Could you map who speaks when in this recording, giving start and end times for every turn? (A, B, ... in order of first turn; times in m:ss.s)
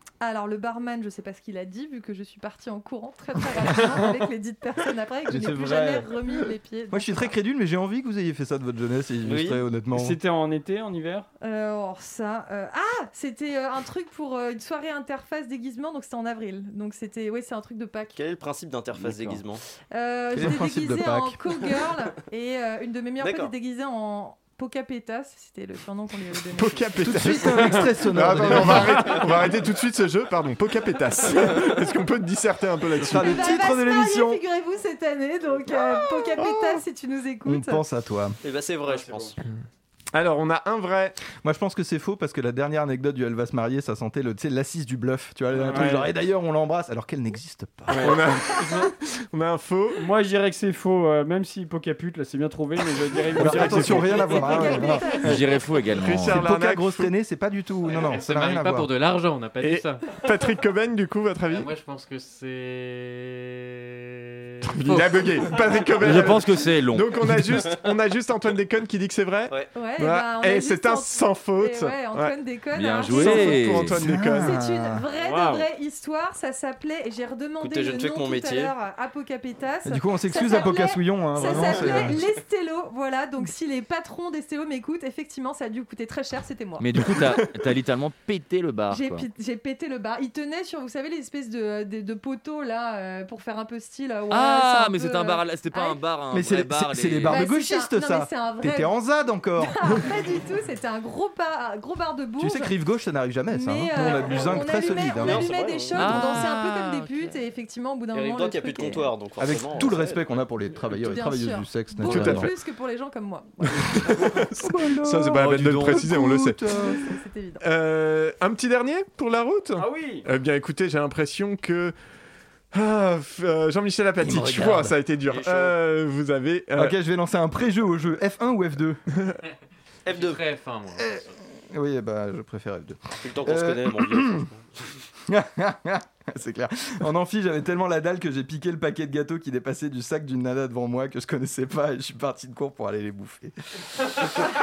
0:00.2-0:07.3 A
0:05.3-0:06.1 B
0:06.9-0:10.2 B
0:09.2-0:09.6 C
0:09.9-0:11.3 D
0:11.4-0:18.2 A
0:18.2-0:19.6 C
0:19.9-0:26.9 A
0:20.3-0:21.4 B
0:23.2-0:23.5 C
0:26.5-0:33.6 E
0:27.0-0:29.2 B
0:33.0-0:34.4 B
0:33.1-0:37.8 A
0:35.7-0:36.8 B
0:37.4-0:38.4 B
0:38.4-0:39.3 C
0:38.8-0:39.3 D
0:40.1-0:41.2 E
0:41.4-0:48.4 B
0:45.5-0:46.1 D
0:47.9-0:50.0 E
0:48.0-0:48.9 D
0:50.0-0:54.8 D
0:53.4-0:55.4 B
0:53.4-0:54.0 E
0:54.0-0:55.6 A
0:55.2-0:56.4 F
0:56.0-0:57.1 E
0:56.2-0:58.9 B
0:57.8-1:00.0 G
0:59.6-1:01.7 E
1:01.5-1:05.9 G
1:04.6-1:12.3 E
1:06.0-1:07.4 F
1:09.7-1:27.5 A
1:12.7-1:13.9 F
1:13.1-1:14.6 E
1:13.8-1:15.0 B
1:15.2-1:15.7 D
1:17.6-1:18.7 C
1:19.8-1:22.2 B
1:26.8-1:29.3 F
1:28.9-1:36.0 A
1:34.3-1:37.4 F
1:36.3-1:39.7 B
1:37.3-1:38.9 A
1:39.6-1:42.7 A
1:42.4-1:45.5 B
1:43.5-1:49.1 A
1:45.2-1:46.1 C
1:45.9-1:47.4 F
1:46.0-1:46.4 B
1:48.1-1:50.2 C
1:49.4-1:52.5 B
1:50.9-1:54.0 A
1:52.0-1:52.6 E
1:53.6-1:56.6 E
1:54.4-1:57.0 B
1:55.4-1:56.0 F
1:56.7-1:57.6 A
1:57.6-2:01.9 E
1:59.8-2:00.2 D
2:02.7-2:07.0 E
2:04.2-2:04.9 B
2:04.3-2:04.8 F
2:05.3-2:05.7 G
2:06.7-2:09.0 B
2:10.0-2:10.4 C
2:10.1-2:11.2 G
2:11.0-2:14.5 B
2:13.2-2:14.6 C
2:15.3-2:23.5 B